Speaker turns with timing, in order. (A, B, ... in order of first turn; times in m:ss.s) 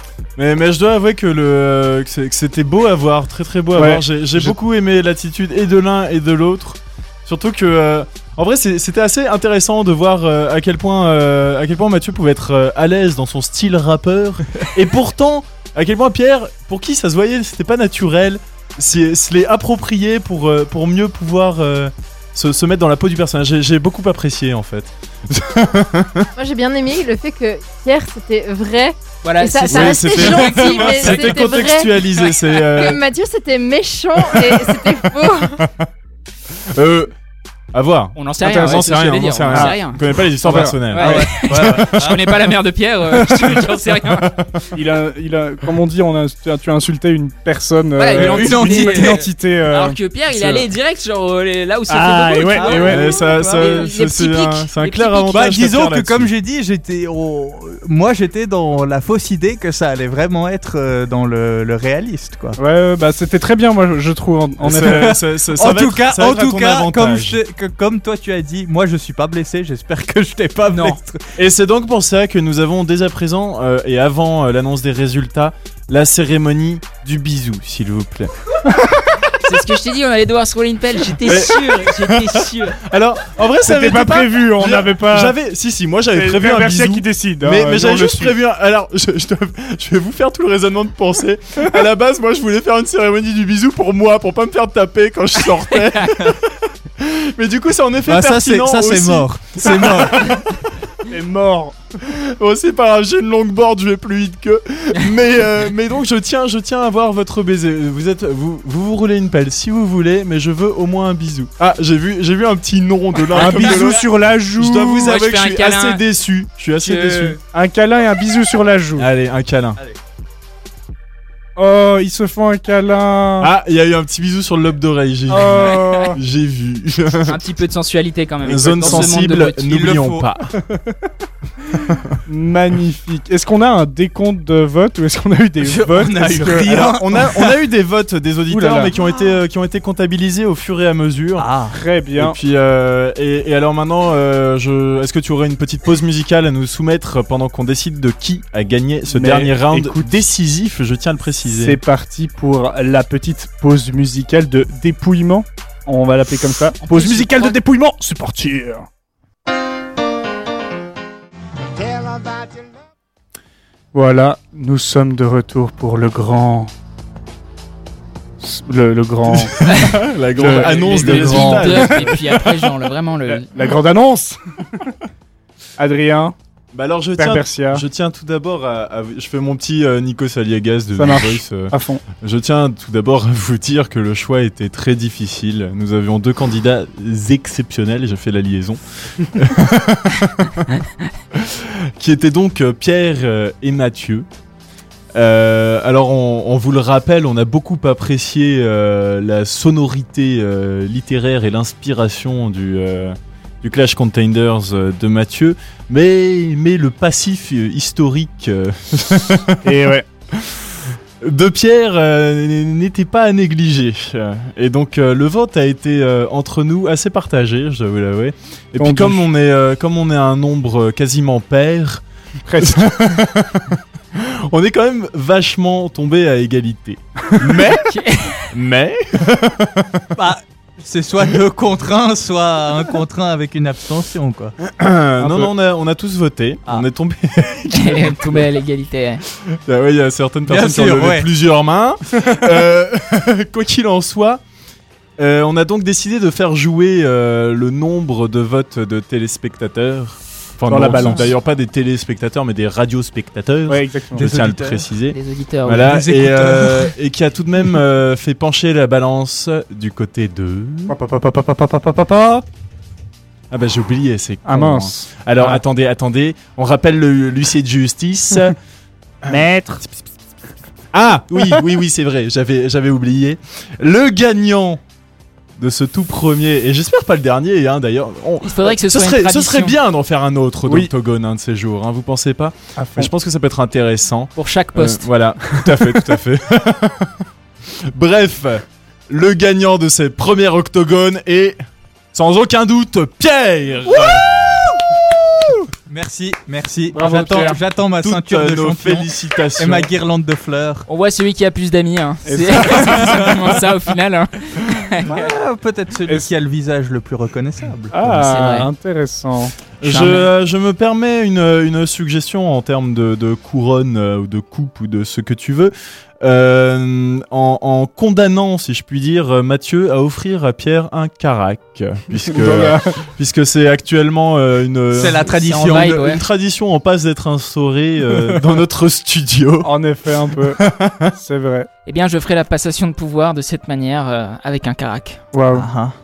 0:00.4-0:26.3 A
0:03.7-0:04.6 B
0:26.4-0:35.6 C
0:29.2-0:31.3 D
0:29.7-0:33.0 A
0:34.4-0:35.9 A
0:36.5-0:37.1 A
0:37.7-0:42.2 A
0:38.2-0:40.0 D
0:38.4-0:38.8 B
0:39.5-0:39.8 B
0:40.4-0:40.8 B
0:40.9-0:44.3 D
0:41.0-0:42.3 E
0:44.7-0:50.0 B
0:48.0-0:55.5 D
0:48.1-0:49.3 E
0:51.9-0:53.0 B
0:52.5-0:53.9 E
0:52.8-0:56.3 A
0:55.3-1:02.6 E
1:02.6-1:05.2 B
1:04.6-1:07.4 A
1:05.5-1:11.2 E
1:10.7-1:11.0 D
1:11.4-1:18.3 A
1:19.4-1:22.8 D
1:21.2-1:40.7 A
1:23.6-1:25.4 B
1:26.1-1:28.3 B
1:35.9-1:36.1 D
1:38.1-1:40.4 E
1:41.1-1:41.8 B
1:42.0-1:54.0 A
1:53.3-1:55.1 B
1:53.5-1:53.9 D
1:54.5-1:57.4 A
1:55.0-1:56.0 D
1:56.8-1:57.3 D
1:57.4-1:59.1 B
1:59.0-1:59.8 A
2:01.6-2:03.5 B
2:03.4-2:07.4 A
2:05.3-2:06.2 B
2:05.7-2:06.1 D
2:07.2-2:09.7 D
2:08.4-2:10.5 A
2:08.8-2:10.2 E
2:12.2-2:16.9 B
2:15.6-2:17.5 E
2:16.7-2:21.5 A
2:18.5-2:19.4 E
2:21.4-2:21.8 E
2:21.7-2:22.4 B
2:22.2-2:31.8 A
2:29.1-2:30.2 B
2:31.4-2:38.9 B
2:36.8-2:37.6 D
2:43.9-2:46.7 B
2:48.4-2:49.6 B
2:49.2-2:52.5 A
2:50.4-2:52.2 B
2:50.5-2:51.7 E
2:50.9-2:53.5 D
2:53.2-2:54.9 B
2:55.8-2:56.3 B
2:56.7-3:10.8 A
2:57.2-2:57.8 B
3:00.9-3:02.0 B
3:11.3-3:14.3 A
3:15.1-3:29.7 A
3:29.6-3:30.1 B
3:30.3-3:42.0 A
3:38.8-3:39.3 B
3:42.4-3:43.0 B
3:42.6-3:47.8 A
3:47.8-3:48.5 D
3:48.5-3:50.0 A
3:50.1-3:54.5 E
3:54.6-3:58.5 A
3:55.2-3:55.5 B
3:57.7-3:59.2 D
3:59.4-4:04.4 A
4:00.5-4:01.3 E
4:05.2-4:21.0 A
4:10.7-4:11.3 B
4:10.9-4:11.2 E
4:13.7-4:14.3 B
4:14.2-4:14.9 E
4:15.1-4:15.9 D
4:15.8-4:16.9 E
4:20.9-4:22.4 B
4:23.5-4:28.5 A
4:24.4-4:25.6 B
4:29.2-4:29.8 B
4:30.9-4:34.8 A
4:35.6-4:51.6 A
4:38.4-4:39.8 D
4:42.8-4:43.1 B
4:44.4-4:45.1 D
4:45.5-4:46.0 B
4:52.1-4:54.6 A
4:55.9-5:00.9 E
4:56.9-4:57.6 B
4:57.1-4:57.5 A
4:58.0-4:59.9 A
5:00.9-5:05.3 D
5:02.2-5:03.4 B
5:05.0-5:08.1 E
5:07.9-5:09.5 B
5:08.2-5:08.7 D
5:09.8-5:29.7 A
5:09.8-5:10.3 D
5:22.2-5:23.0 B
5:24.9-5:26.0 E
5:25.5-5:26.2 D
5:29.6-5:31.7 B
5:30.6-5:31.1 A
5:31.9-5:35.2 D
5:35.3-5:35.7 B
5:35.5-5:35.9 E